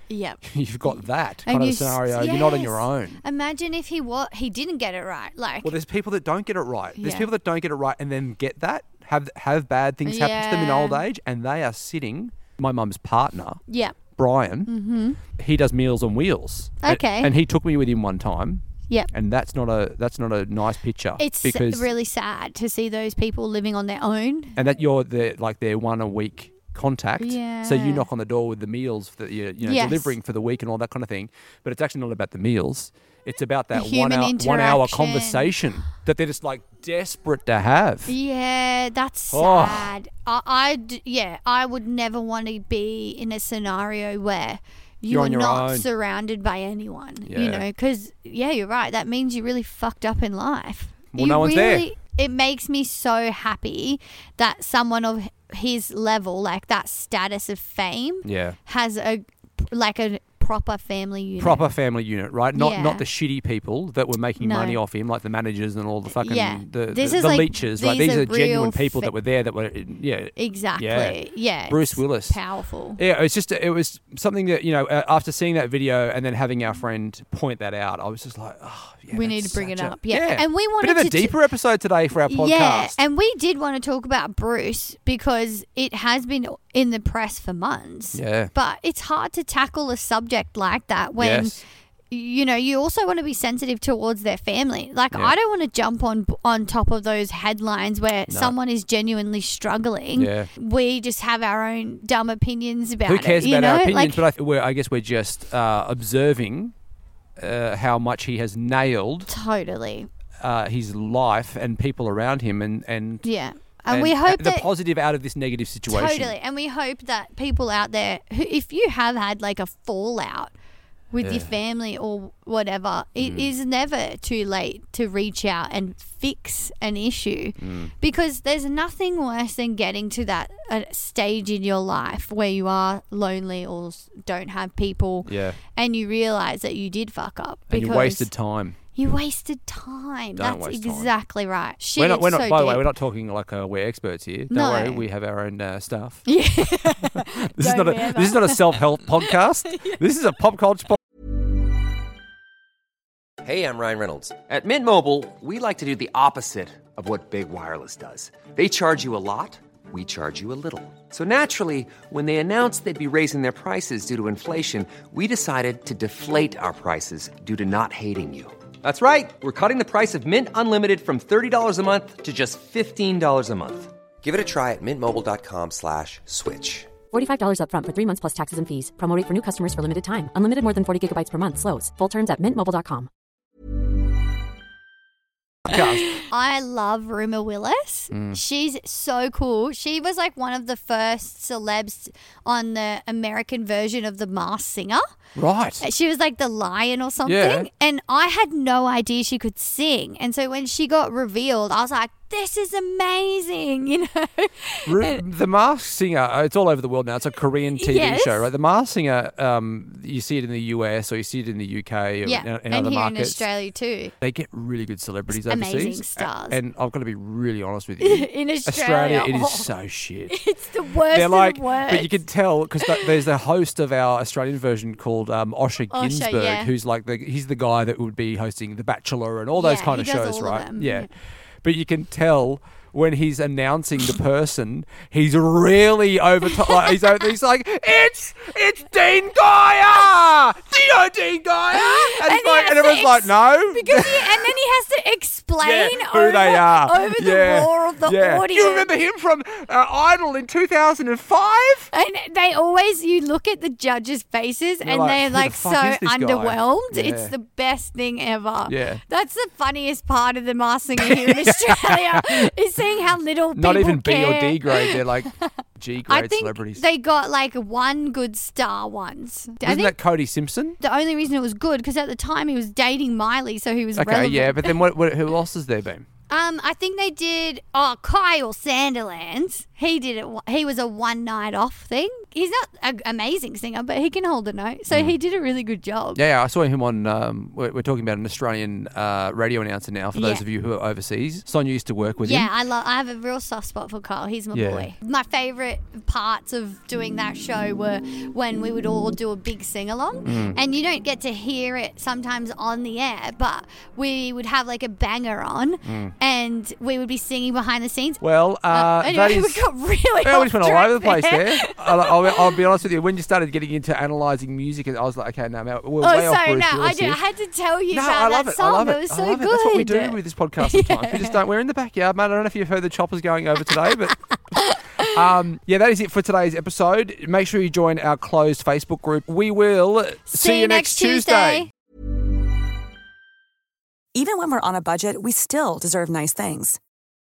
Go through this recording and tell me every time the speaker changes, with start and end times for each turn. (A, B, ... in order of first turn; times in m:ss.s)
0:00.1-0:05.7 A
0:00.4-0:03.2 B
0:05.6-0:14.7 B
0:07.0-0:07.3 A
0:10.0-0:11.0 A
0:13.7-0:14.0 A
0:14.7-0:15.2 A
0:15.3-0:21.9 B
0:16.8-0:17.3 A
0:21.2-0:24.6 A
0:24.5-0:38.1 B
0:27.2-0:28.1 A
0:29.6-0:30.2 A
0:33.7-0:35.5 A
0:38.1-1:01.7 A
0:39.3-0:40.0 B
0:45.1-0:45.9 B
0:47.2-0:47.6 B
0:51.1-0:51.9 B
0:58.2-0:58.6 B
1:01.4-1:12.4 B
1:02.5-1:03.0 A
1:04.4-1:04.8 A
1:06.1-1:09.1 A
1:10.4-1:13.0 A
1:13.0-1:23.0 B
1:19.1-1:21.4 A
1:22.2-1:44.3 A
1:28.1-1:28.5 B
1:31.2-1:31.6 B
1:38.3-1:38.5 B
1:40.2-1:40.5 B
1:43.0-1:46.7 B
1:47.4-1:49.3 B
1:49.3-1:50.1 A
1:50.4-1:53.2 B
1:53.2-1:54.7 A
1:53.9-1:56.4 B
1:55.9-2:00.5 A
2:01.1-2:18.3 A
2:01.2-2:01.5 B
2:03.2-2:03.5 B
2:07.6-2:07.9 B
2:15.2-2:15.6 B
2:17.7-2:18.8 B
2:19.0-2:22.9 A
2:20.4-2:21.1 B
2:22.0-2:26.2 B
2:24.5-2:25.0 A
2:26.2-2:28.7 A
2:27.0-2:31.0 B
2:33.4-2:57.0 C
2:57.1-3:03.1 D
3:05.6-3:06.3 B
3:06.2-3:15.0 A
3:08.1-3:08.4 B
3:15.4-3:15.9 B
3:15.8-3:25.2 A
3:17.2-3:17.7 B
3:24.9-3:33.5 B
3:27.8-3:28.5 A
3:32.2-3:34.1 A
3:34.2-3:40.4 B
3:35.3-3:36.6 A
3:38.0-3:39.7 A
3:40.3-3:42.2 A
3:41.1-3:51.1 B
3:42.8-3:43.1 A
3:45.9-3:46.7 A
3:49.5-3:51.1 A
3:51.6-4:04.6 B
3:56.7-3:57.2 A
4:01.7-4:08.9 A
4:05.6-4:11.9 B
4:11.9-4:25.5 A
4:14.8-4:17.3 B
4:18.7-4:19.0 B
4:21.0-4:22.5 B
4:23.5-4:26.8 B
4:26.0-4:30.0 A
4:29.6-4:30.8 B
4:30.8-4:34.8 A
4:33.9-4:36.0 B
4:36.3-4:46.2 A
4:44.9-4:45.2 B
4:46.1-4:52.5 B
4:50.1-4:50.4 A
4:52.2-5:12.6 A
4:54.5-4:54.9 B
5:00.2-5:00.6 B
5:05.8-5:06.1 B
5:08.2-5:09.7 B
5:10.2-5:17.2 B
5:16.0-5:21.4 A
5:17.9-5:31.7 B
5:30.3-5:31.7 A
5:34.1-5:36.8 E